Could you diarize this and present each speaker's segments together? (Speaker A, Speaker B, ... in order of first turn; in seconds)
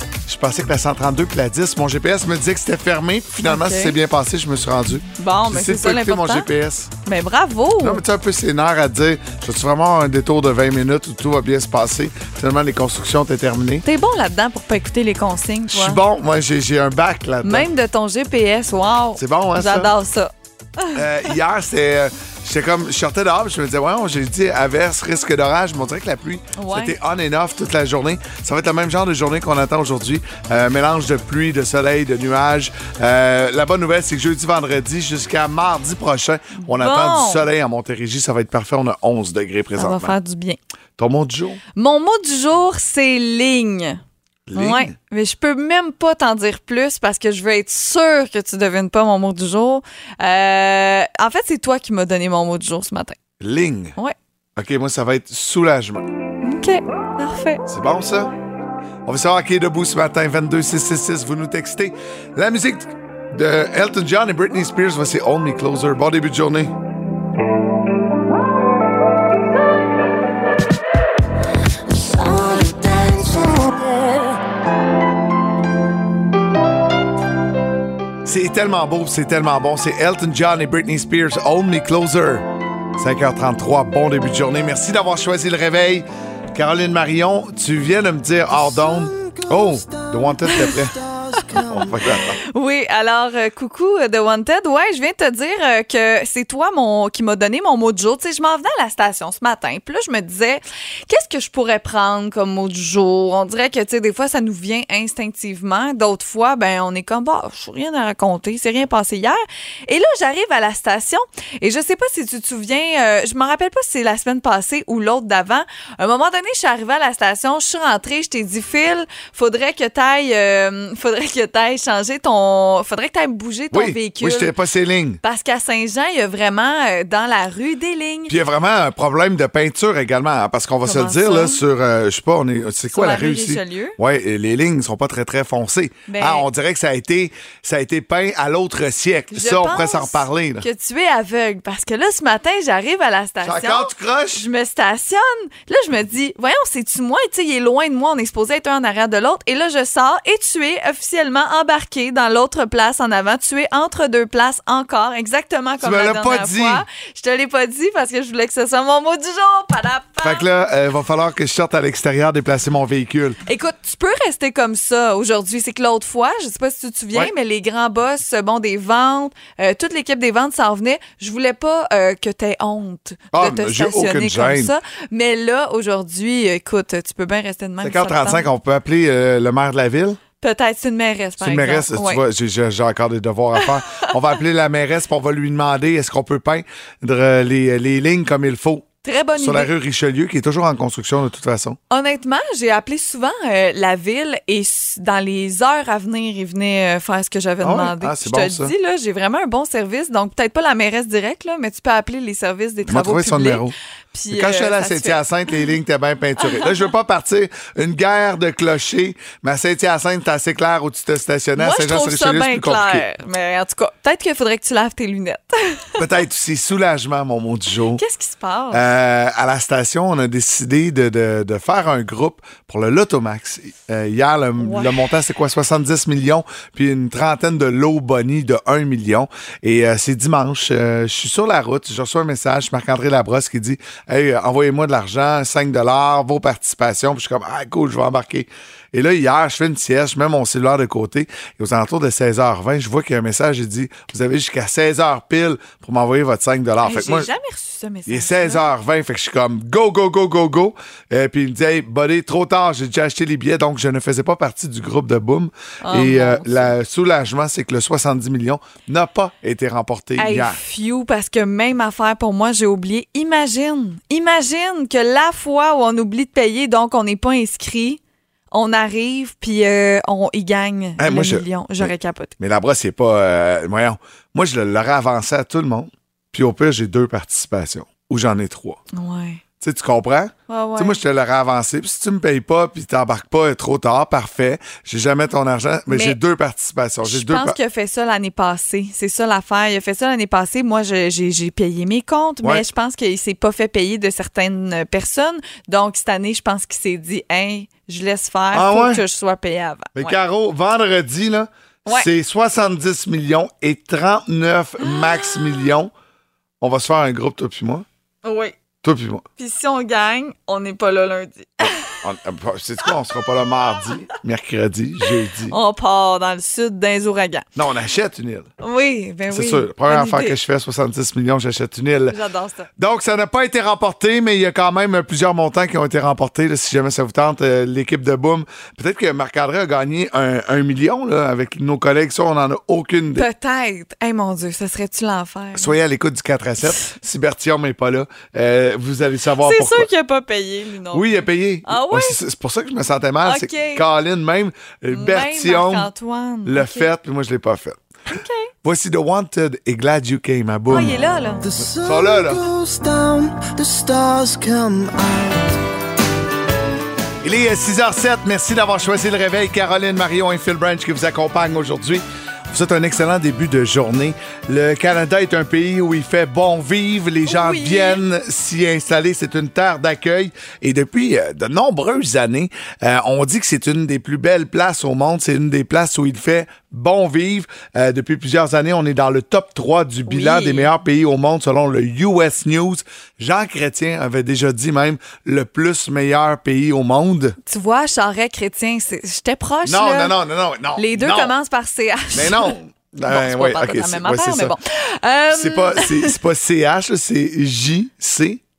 Speaker A: 0.3-6.9, 7.8-13.8, 15.7-17.7, 19.2-19.9, 20.9-40.1, 41.0-41.6, 44.5-44.9, 53.4-53.9, 54.5-56.0, 57.7-58.3, 59.0-66.7, 78.2-82.5, 83.0-90.9, 91.6-92.4, 123.7-125.2, 128.3-140.7, 143.4-144.4, 155.8-156.8, 160.2-163.4, 173.3-174.7, 177.8-180.2, 181.4-191.8, 197.6-198.7, 202.9-203.7, 204.3-213.0, 216.0-218.0, 218.7-247.3, 248.1-260.6, 271.0-278.8, 279.6-287.6, 298.5-299.0, 299.9-305.9, 306.6-307.8, 308.8-309.2, 311.9-315.6, 317.6-318.5, 319.3-322.2, 322.8-333.3, 335.5-339.9, 340.9-345.9, 346.4-347.8, 348.6-351.0, 351.6-352.4, 357.2-387.4, 389.6-391.3, 392.1-394.6, 395.3-398.4
Speaker B: 3.4-3.9, 5.2-6.5, 7.0-8.0, 13.8-16.0, 17.4-21.3, 26.6-26.9, 36.5-37.5, 39.8-40.6, 41.8-44.0, 44.5-53.2, 56.4-57.6, 92.5-124.5, 125.2-128.3, 130.8-131.6, 132.9-134.0, 136.1-136.4, 139.3-160.4, 163.4-178.5, 180.4-182.2, 189.0-189.7, 191.9-205.2, 211.6-215.8, 217.9-218.8, 224.6-224.9, 246.8-248.6, 255.8-256.7, 260.2-268.0, 268.5-272.3, 278.9-279.4, 280.5-281.0, 285.9-286.2, 287.0-300.1, 304.9-305.3, 308.2-308.5, 309.4-312.0, 315.5-317.4, 318.6-320.4, 322.1-322.7, 333.1-335.7, 339.4-341.0, 341.6-342.2, 343.2-343.8, 344.9-346.9, 348.1-348.5, 350.7-351.4, 367.2-368.0, 380.1-380.7, 387.4-390.1, 390.8-392.6, 393.1-396.1
Speaker C: 71.9-74.3, 88.5-92.1, 351.4-355.5